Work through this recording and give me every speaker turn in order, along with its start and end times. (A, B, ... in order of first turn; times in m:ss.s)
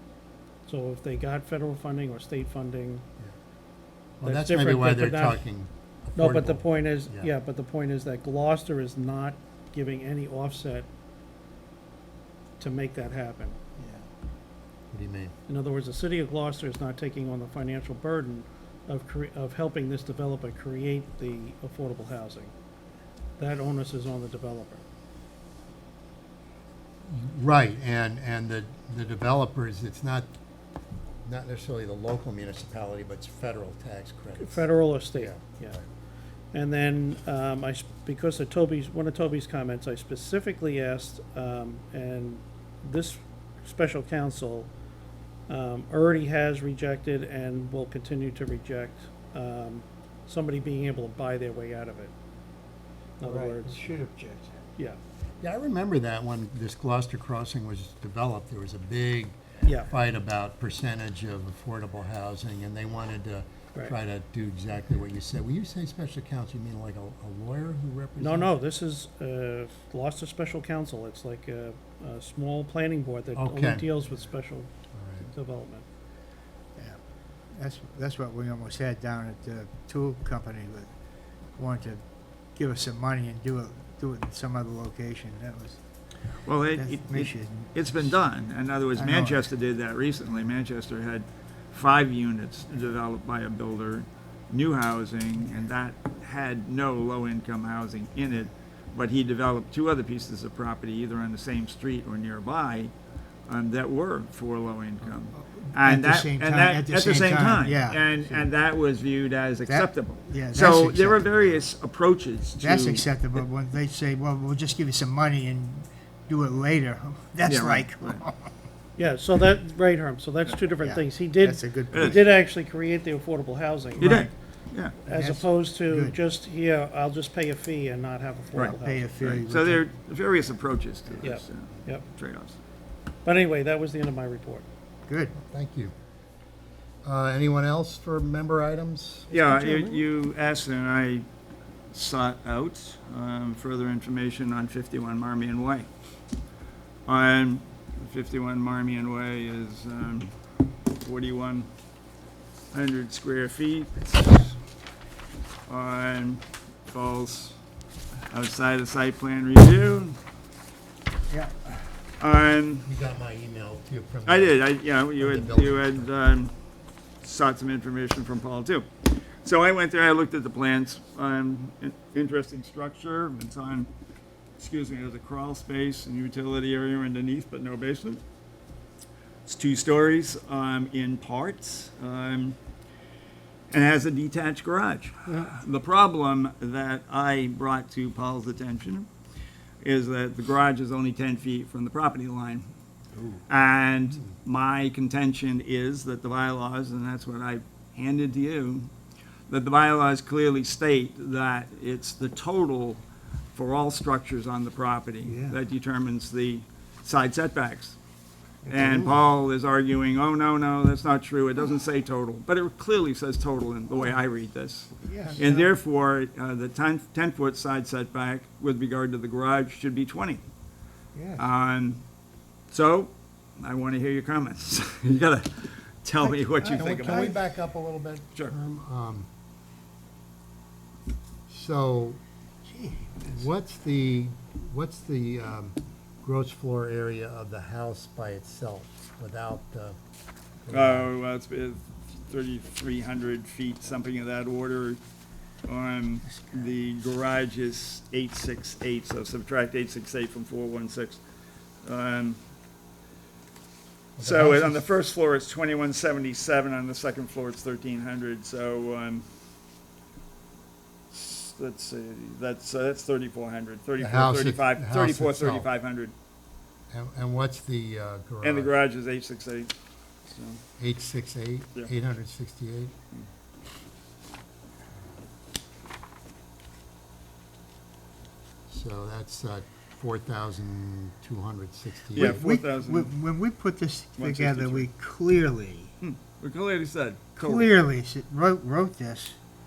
0:00.7-0:03.0 A
0:04.2-0:07.3 B
0:04.2-0:05.5 A
0:06.2-0:10.9 A
0:12.6-0:13.6 A
0:13.8-0:14.0 C
0:14.9-0:15.3 B
0:15.5-0:22.5 A
0:23.4-0:24.8 A
0:27.1-0:30.3 B
0:31.2-0:35.8 B
0:34.4-0:35.8 A
0:36.5-0:44.7 A
0:45.5-0:52.1 A
0:53.2-0:53.9 A
0:53.2-0:54.7 C
0:55.4-1:08.5 B
0:59.7-0:59.9 A
1:08.2-1:14.7 A
1:13.3-1:13.9 B
1:14.9-1:15.3 B
1:15.2-1:15.8 A
1:17.5-1:20.9 C
1:21.6-1:22.0 C
1:22.6-1:25.8 C
1:26.4-1:42.9 D
1:26.7-1:28.1 C
1:28.9-1:29.5 C
1:43.5-1:53.4 D
1:45.3-1:48.5 C
1:49.7-1:51.5 C
1:52.6-1:58.5 C
1:57.4-1:58.2 D
1:59.0-2:04.3 A
2:00.8-2:02.3 C
2:01.9-2:02.2 D
2:04.0-2:04.3 C
2:04.0-2:05.0 D
2:05.0-2:09.1 A
2:05.1-2:06.2 C
2:08.6-2:09.9 C
2:08.6-2:12.6 D
2:11.2-2:12.1 A
2:13.2-2:14.7 A
2:15.1-2:15.4 C
2:15.4-2:15.9 B
2:17.0-2:19.8 B
2:19.3-2:21.3 D
2:21.9-2:25.9 D
2:27.1-2:30.4 D
2:31.0-2:31.7 D
2:32.7-2:34.6 D
2:35.7-2:37.6 D
2:38.3-2:40.2 D
2:41.3-2:41.6 C
2:42.2-2:42.9 D
2:42.8-2:44.6 B
2:44.3-2:46.5 D
2:45.2-2:46.1 B
2:47.2-2:53.9 D
2:54.6-2:58.2 D
2:59.5-3:02.6 D
3:03.7-3:09.1 D
3:09.8-3:12.7 D
3:13.5-3:18.9 D
3:19.5-3:28.0 D
3:25.2-3:25.6 C
3:28.6-3:29.2 C
3:28.7-3:40.4 D
3:35.0-3:35.7 C
3:41.1-3:41.5 C
3:41.4-3:42.0 D
3:42.7-3:47.4 D
3:46.2-3:47.4 C
3:46.6-3:49.3 B
3:51.5-3:52.2 B
3:52.7-3:53.3 C
3:53.2-4:00.0 B
4:00.6-4:01.1 B
4:00.7-4:05.0 D
4:05.6-4:11.2 D
4:06.3-4:06.7 C
4:11.8-4:12.4 D
4:14.2-4:14.8 B
4:14.2-4:19.2 D
4:21.1-4:26.1 D
4:24.0-4:25.7 B
4:26.9-4:28.8 B
4:28.4-4:29.8 D
4:30.3-4:30.6 D
4:30.8-4:32.9 B
4:38.7-4:42.4 B
4:42.1-4:43.2 D
4:42.2-4:45.9 C
4:44.2-4:44.9 D
4:46.0-4:47.8 D
4:47.4-4:49.4 C